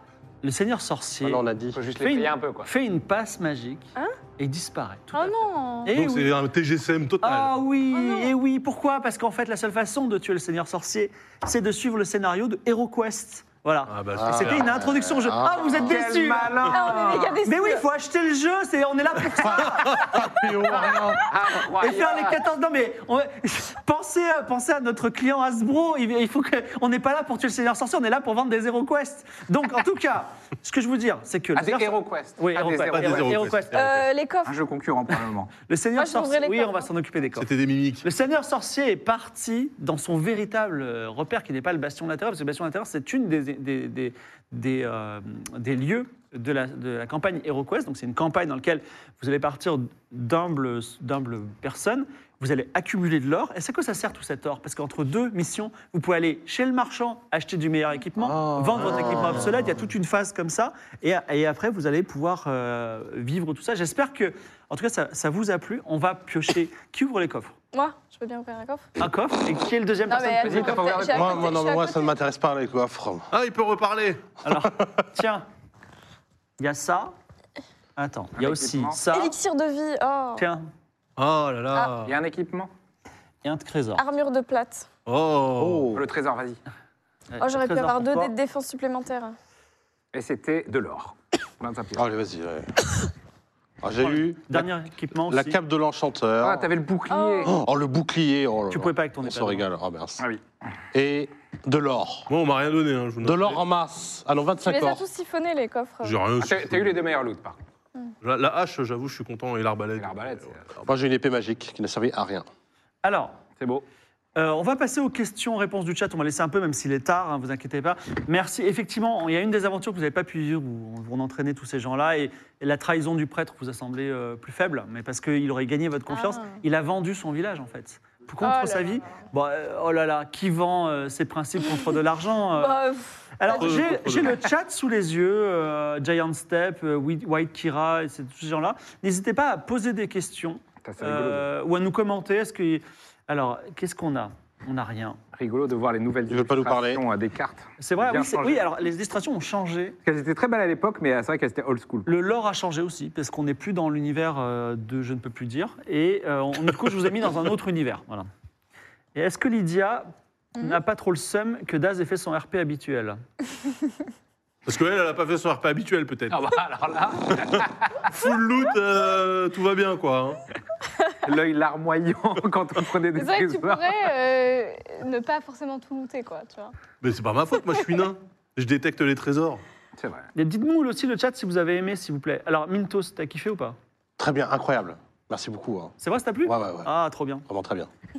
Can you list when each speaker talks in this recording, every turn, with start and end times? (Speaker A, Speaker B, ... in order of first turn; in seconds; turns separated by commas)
Speaker A: 0.4-1.4, Speaker B: 1.2-1.8, Speaker C: 1.7-2.7, Speaker A: 2.0-6.3, Speaker D: 5.1-5.9, Speaker E: 5.9-7.5, Speaker A: 7.2-34.0, Speaker D: 7.9-8.3, Speaker E: 13.9-14.8, Speaker B: 14.2-15.9, Speaker C: 15.8-17.4, Speaker D: 16.7-17.9, Speaker B: 19.4-21.3, Speaker E: 19.8-20.2, Speaker C: 20.7-22.4, Speaker C: 31.5-33.5, Speaker E: 32.9-34.0, Speaker D: 33.7-34.6, Speaker C: 34.5-35.5, Speaker A: 35.7-37.5, Speaker D: 36.0-36.9, Speaker E: 37.4-38.0, Speaker A: 38.0-67.5, Speaker B: 58.2-59.7, Speaker D: 67.7-68.9, Speaker A: 69.0-70.9, Speaker D: 70.1-72.1, Speaker C: 70.4-71.5, Speaker B: 71.1-73.3, Speaker E: 73.3-74.2, Speaker A: 74.4-75.5, Speaker A: 76.6-77.1, Speaker A: 78.0-79.3, Speaker C: 78.4-79.0, Speaker D: 79.1-80.5, Speaker A: 80.3-80.7, Speaker E: 81.2-82.1, Speaker C: 82.0-82.7, Speaker A: 83.4-84.0, Speaker D: 84.0-84.9, Speaker E: 85.0-85.9, Speaker B: 85.6-86.0, Speaker C: 85.9-86.6, Speaker A: 87.3-88.3, Speaker D: 87.4-89.3, Speaker C: 90.1-92.1, Speaker B: 92.0-92.8, Speaker B: 93.8-94.7, Speaker A: 94.0-95.6, Speaker B: 95.2-96.7, Speaker C: 96.4-97.5, Speaker D: 97.1-97.5, Speaker B: 97.4-100.2, Speaker A: 98.7-99.7, Speaker B: 100.9-102.3, Speaker E: 102.3-103.6, Speaker B: 103.2-105.0, Speaker D: 104.6-106.2, Speaker E: 106.0-107.0, Speaker C: 106.4-107.6, Speaker E: 108.2-110.8, Speaker C: 110.0-110.7, Speaker B: 110.8-112.5, Speaker A: 113.0-113.4, Speaker C: 113.6-113.8, Speaker A: 114.3-145.2, Speaker D: 126.1-126.6, Speaker D: 128.4-129.2, Speaker D: 132.5-133.8, Speaker E: 133.5-134.4, Speaker C: 140.8-141.5, Speaker C: 145.3-148.7, Speaker B: 146.3-147.0, Speaker A: 147.8-150.0, Speaker C: 150.0-152.1, Speaker A: 152.1-158.3, Speaker A: 159.1-163.2, Speaker E: 164.7-166.5, Speaker C: 166.3-167.9, Speaker E: 167.4-170.4, Speaker C: 171.2-174.1, Speaker D: 173.2-176.7, Speaker E: 177.0-179.6, Speaker C: 180.0-180.3, Speaker A: 180.3-183.8, Speaker B: 184.2-186.9, Speaker A: 186.0-187.4, Speaker B: 187.5-187.9